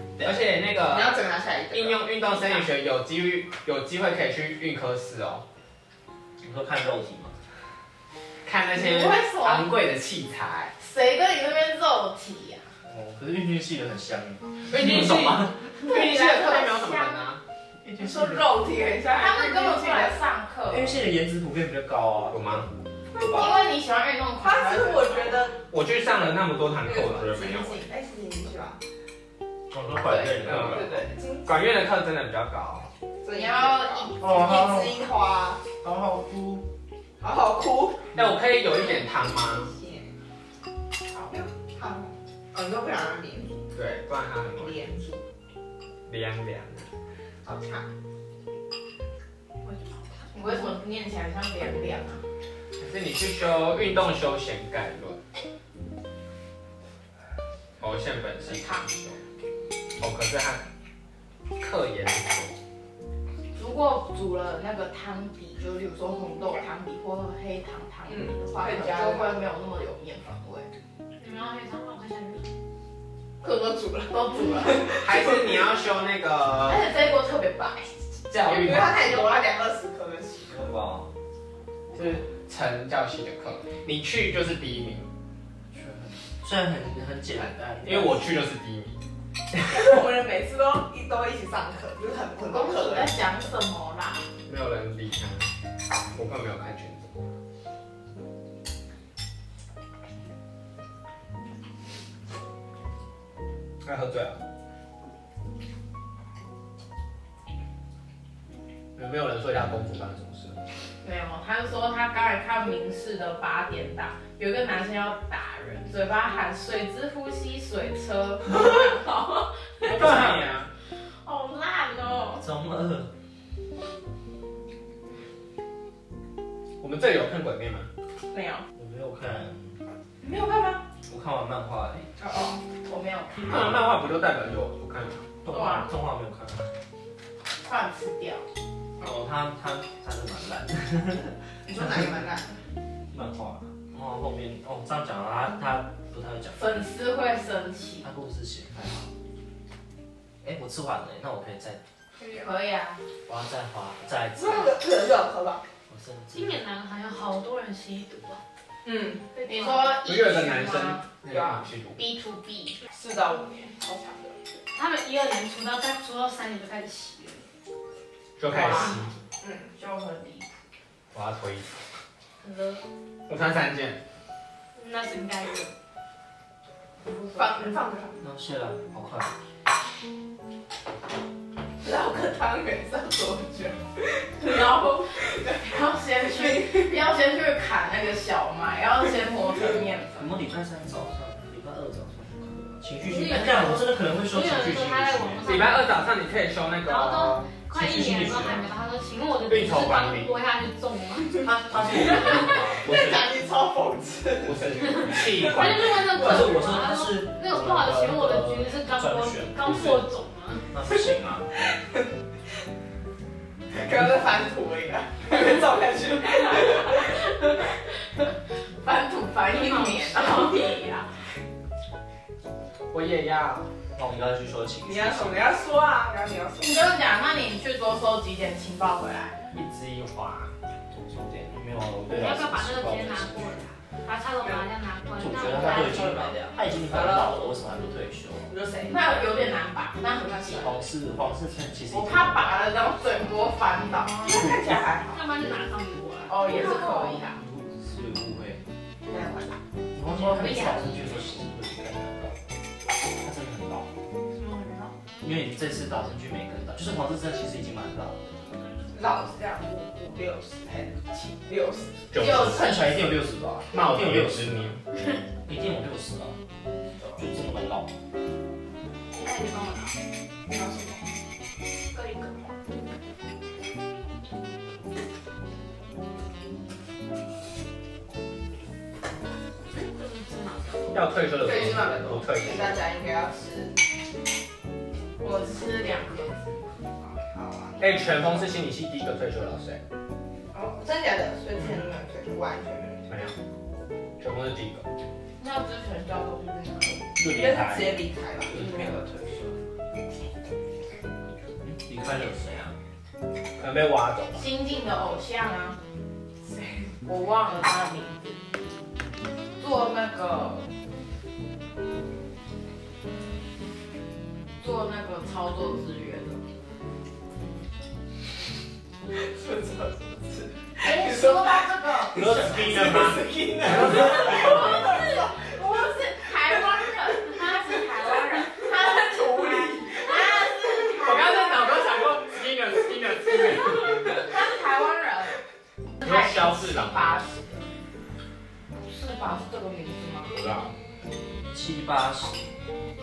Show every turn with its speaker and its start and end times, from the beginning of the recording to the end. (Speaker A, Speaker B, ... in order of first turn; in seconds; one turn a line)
Speaker A: 0.2-5.4
Speaker B: 0.8-2.1
Speaker C: 6.4-7.3
Speaker A: 8.4-10.7
Speaker D: 8.7-9.7
Speaker D: 10.8-12.6
Speaker C: 12.9-15.5
Speaker A: 14.7-17.4
Speaker D: 15.8-17.3
Speaker B: 17.9-20.2
Speaker D: 19.1-21.0
Speaker C: 20.7-23.6
Speaker A: 22.3-22.7
Speaker B: 23.2-23.5
Speaker D: 23.3-25.4
Speaker B: 24.4-28.8
Speaker A: 25.7-27.8
Speaker C: 29.7-30.9
Speaker A: 30.1-32.9
Speaker B: 30.2-31.8
Speaker B: 33.2-35.6
Speaker D: 33.3-34.3
Speaker C: 34.2-35.0
Speaker C: 35.8-36.6
Speaker B: 37.2-38.2
Speaker A: 38.1-39.7
Speaker B: 38.9-40.1
Speaker B: 41.3-43.5
Speaker A: 43.7-44.8
Speaker B: 44.5-45.2
Speaker A: 46.1-46.9
Speaker B: 47.4-47.9
Speaker E: 49.6-50.3
Speaker D: 50.3-52.2
Speaker A: 52.8-55.2
Speaker A: 57.8-59.2
Speaker D: 58.5-58.9
Speaker A: 60.0-60.6
Speaker A: 61.6-62.5
Speaker D: 63.5-70.7
Speaker B: 68.1-69.4
Speaker E: 71.2-72.5
Speaker B: 73.4-75.3
Speaker D: 74.1-74.9
Speaker A: 75.0-76.9
Speaker D: 76.7-78.0
Speaker A: 78.3-79.4
Speaker B: 78.4-80.7
Speaker C: 80.5-81.1
Speaker A: 81.9-85.1
Speaker C: 85.7-88.3
Speaker A: 87.8-89.0
Speaker B: 89.7-93.1
Speaker D: 92.5-94.2
Speaker A: 94.5-95.5
Speaker A: 96.1-97.2
Speaker A: 103.8-104.4
Speaker A: 109.0-110.6
Speaker D: 111.0-120.2
Speaker A: 119.8-120.7
Speaker C: 119.9-120.6
Speaker D: 121.2-122.5
Speaker C: 122.4-123.1
Speaker A: 126.8-127.9
Speaker D: 128.3-128.6
Speaker C: 128.8-129.8
Speaker B: 130.2-130.8
Speaker C: 131.1-132.1
Speaker B: 132.2-132.6
Speaker D: 132.8-133.7
Speaker A: 133.4-135.3
Speaker C: 135.4-136.7
Speaker D: 135.5-135.9
Speaker D: 137.6-138.4
Speaker C: 139.0-142.1
Speaker B: 141.7-142.6
Speaker C: 143.1-146.6
Speaker D: 146.6-148.1
Speaker C: 148.0-149.1
Speaker C: 150.4-151.8
Speaker B: 152.2-152.5
Speaker D: 152.4-153.0
Speaker C: 153.3-154.8
Speaker B: 154.3-155.6
Speaker C: 155.9-156.6
Speaker E: 156.3-158.4
Speaker B: 158.8-159.3
Speaker E: 159.3-160.0
Speaker D: 159.4-161.0
Speaker A: 160.0-162.0
Speaker B: 161.3-161.7
Speaker D: 162.0-162.8
Speaker B: 162.9-164.4
Speaker E: 164.7-167.4
Speaker A: 168.4-169.2
Speaker D: 168.5-168.9
Speaker B: 169.4-169.7
Speaker D: 169.7-170.5
Speaker A: 171.1-171.7
Speaker E: 172.4-172.8
Speaker A: 173.3-174.0
Speaker E: 174.8-175.7
Speaker D: 177.2-177.6
Speaker B: 177.3-178.2
Speaker C: 178.2-179.3
Speaker B: 181.8-184.8
Speaker D: 184.4-190.3
Speaker B: 186.3-186.9
Speaker C: 190.2-195.4
Speaker E: 193.0-196.1
Speaker A: 195.4-197.5
Speaker E: 196.9-201.5
Speaker C: 197.7-198.7
Speaker A: 199.5-200.3
Speaker C: 201.4-203.2
Speaker A: 202.6-203.2
Speaker B: 202.8-206.6
Speaker A: 204.4-205.9
Speaker E: 205.4-210.7
Speaker C: 206.1-210.1
Speaker C: 210.7-211.5
Speaker B: 211.8-212.1
Speaker B: 213.7-217.2
Speaker D: 218.8-221.1
Speaker E: 219.5-220.7
Speaker A: 222.9-223.7
Speaker C: 223.9-225.5
Speaker B: 224.8-226.9
Speaker D: 226.6-229.3
Speaker A: 229.5-230.5
Speaker C: 230.9-233.6
Speaker E: 232.1-236.4
Speaker C: 235.2-238.5
Speaker B: 235.5-237.4
Speaker B: 238.5-239.1
Speaker D: 238.9-240.8
Speaker B: 240.3-240.7
Speaker C: 240.5-242.7
Speaker D: 241.9-244.6
Speaker C: 244.2-244.9
Speaker B: 244.2-245.2
Speaker E: 245.1-246.4
Speaker D: 246.3-247.4
Speaker B: 246.5-246.9
Speaker C: 247.3-248.6
Speaker D: 249.1-249.6
Speaker C: 249.9-252.4
Speaker D: 250.1-251.0
Speaker C: 253.2-253.9
Speaker E: 254.3-254.9
Speaker C: 255.2-258.4
Speaker E: 258.5-258.9
Speaker B: 258.9-262.1
Speaker A: 262.1-263.0
Speaker D: 262.2-263.0
Speaker C: 262.2-266.4
Speaker A: 263.7-264.8
Speaker C: 267.2-267.9
Speaker E: 269.1-269.9
Speaker B: 270.5-271.0
Speaker E: 271.9-272.4
Speaker E: 279.7-281.0
Speaker A: 280.9-282.8
Speaker B: 281.4-283.8
Speaker D: 285.2-287.2
Speaker B: 287.3-288.1
Speaker A: 287.8-289.8
Speaker B: 290.5-293.1
Speaker A: 293.1-293.4
Speaker A: 294.2-294.8
Speaker D: 295.4-297.0
Speaker C: 297.2-298.8
Speaker B: 297.2-299.5
Speaker C: 301.6-302.8
Speaker A: 303.6-304.4
Speaker D: 304.4-305.8
Speaker B: 306.4-306.9
Speaker D: 307.1-308.4
Speaker D: 309.6-310.7
Speaker D: 314.6-316.4
Speaker B: 319.1-325.6
Speaker D: 320.8-322.2
Speaker A: 322.1-324.9
Speaker C: 322.2-322.9
Speaker C: 323.7-324.1
Speaker D: 324.1-331.8
Speaker B: 328.6-330.9
Speaker A: 331.0-334.0
Speaker D: 334.2-335.4
Speaker D: 336.0-337.7
Speaker A: 336.0-337.2
Speaker D: 338.8-340.3
Speaker A: 340.3-340.7
Speaker C: 341.5-342.5